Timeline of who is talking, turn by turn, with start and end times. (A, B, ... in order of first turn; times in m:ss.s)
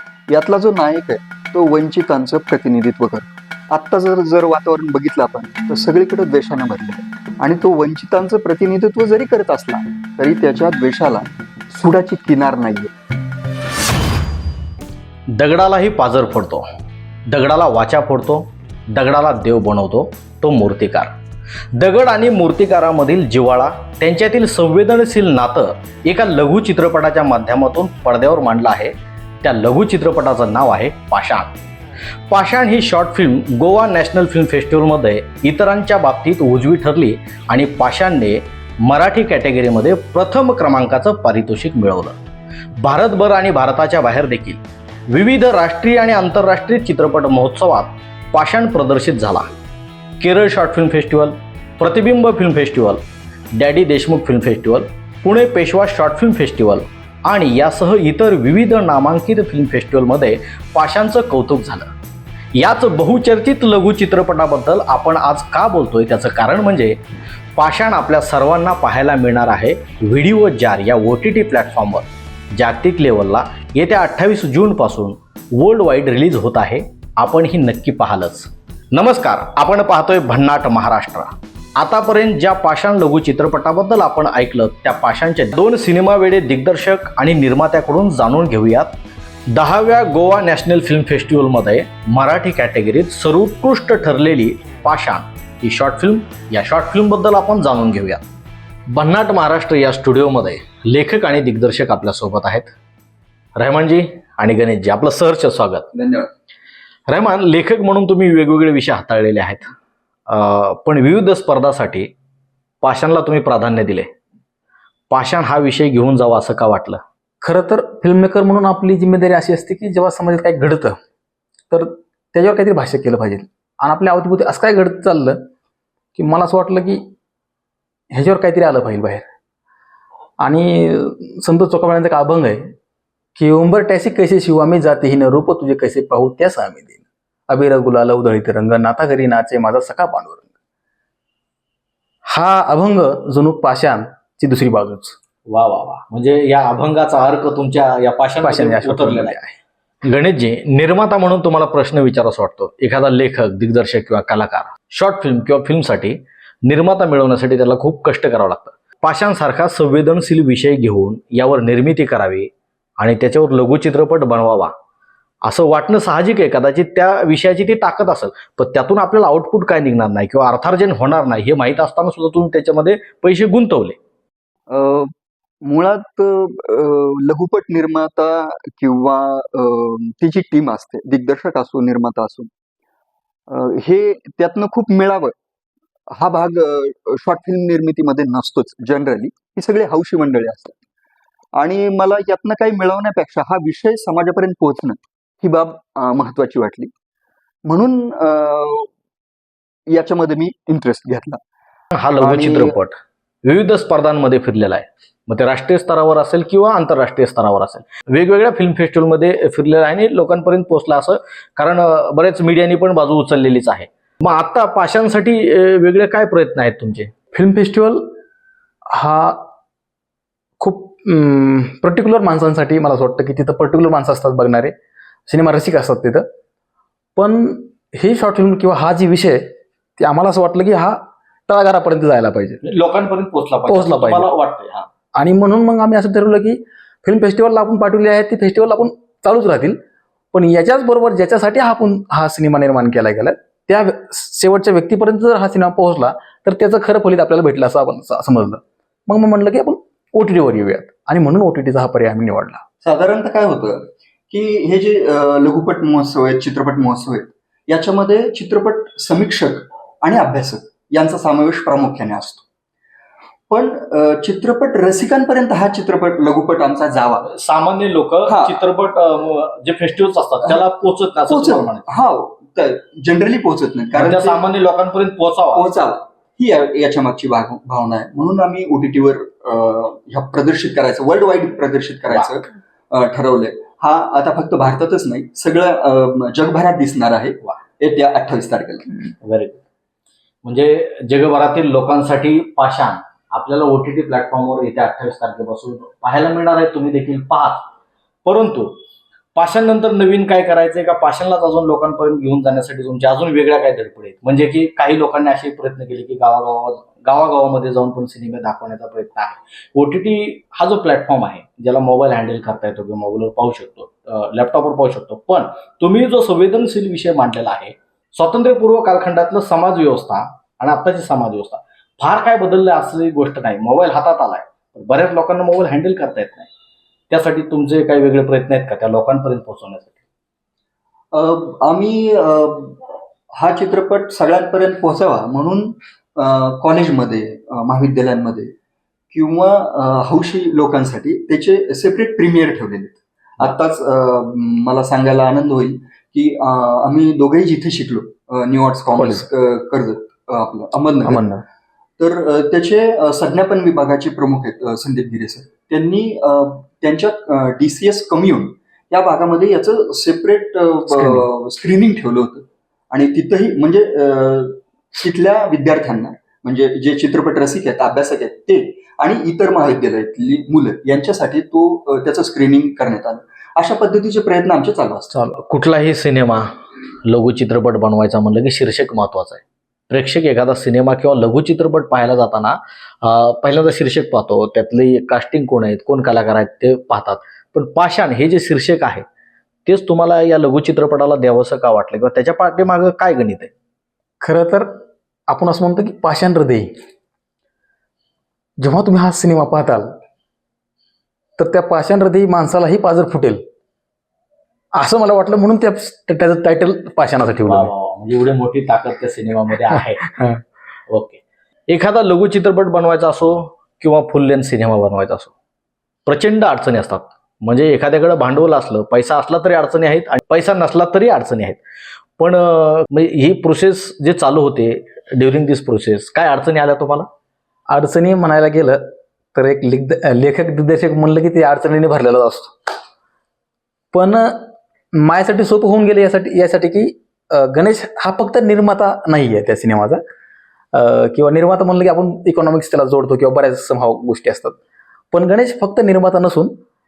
0:00.3-0:12.9 A
0:15.4-0:16.6 B
0:17.3-0:21.1 B
0:21.8-0:31.6 B
0:32.3-0:42.2 B
0:42.8-0:49.4 B
0:50.2-0:53.0 B
0:53.6-1:01.9 B
1:02.6-1:07.0 B
1:07.6-1:29.0 B
1:29.5-1:38.2 B
1:38.9-1:42.7 B
1:43.6-1:45.9 B
1:45.9-1:46.3 A
1:47.1-1:49.7 B
1:50.3-1:52.1 B
1:52.8-1:54.1 B
1:55.1-1:57.0 B
1:57.4-2:01.0 C
2:01.7-2:05.4 C
2:06.2-2:07.0 C
2:08.1-2:09.2 C
2:10.4-2:12.7 C
2:13.4-2:16.9 C
2:17.5-2:20.5 C
2:22.3-2:25.2 C
2:25.5-2:29.4 B
2:28.4-2:29.6 C
2:30.1-2:42.5 B
2:43.0-2:44.7 B
2:45.4-2:54.0 B
2:54.7-2:55.1 A
2:55.6-3:02.5 A
3:03.5-3:05.4 A
3:06.1-3:10.8 A
3:11.6-3:16.9 A
3:17.7-3:18.9 A
3:19.9-3:21.4 A
3:22.0-3:23.0 B
3:22.2-3:22.8 A
3:23.5-3:37.1 B
3:37.3-3:38.1 C
3:38.9-3:39.4 C
3:40.6-3:44.7 C
3:45.3-3:46.2 C
3:47.2-3:49.4 C
3:50.0-3:52.6 C
3:52.6-3:54.9 B
3:53.7-3:54.3 C
3:55.2-3:59.8 C
4:00.3-4:12.6 C
4:12.8-4:22.4 A
4:23.5-4:27.3 A
4:27.3-4:31.9 B
4:28.3-4:28.6 A
4:31.3-4:34.4 A
4:34.0-4:35.7 B
4:35.5-4:48.9 A
4:49.2-4:49.6 B
4:50.4-4:57.6 B
4:58.3-4:58.8 B
4:59.4-5:26.5 B
5:27.1-5:29.9 B
5:31.1-5:32.8 A
5:33.3-5:38.5 A
5:39.1-5:51.2 A
5:48.9-5:49.3 C
5:51.0-5:51.4 C
5:52.0-6:15.1 A
6:00.9-6:01.3 C
6:15.1-6:15.4 C
6:15.4-6:16.5 B
6:17.0-6:29.0 B
6:29.7-6:33.5 B
6:34.2-6:34.7 C
6:35.3-6:36.7 C
6:38.6-6:40.0 C
6:41.4-6:43.4 C
6:44.8-6:47.7 C
6:47.5-6:50.1 B
6:50.9-6:55.3 B
6:56.1-7:01.6 B
7:02.2-7:07.1 B
7:07.7-7:08.8 C
7:09.4-7:12.6 C
7:13.9-7:14.4 C
7:15.0-7:20.0 C
7:20.7-7:24.6 C
7:25.1-7:26.5 C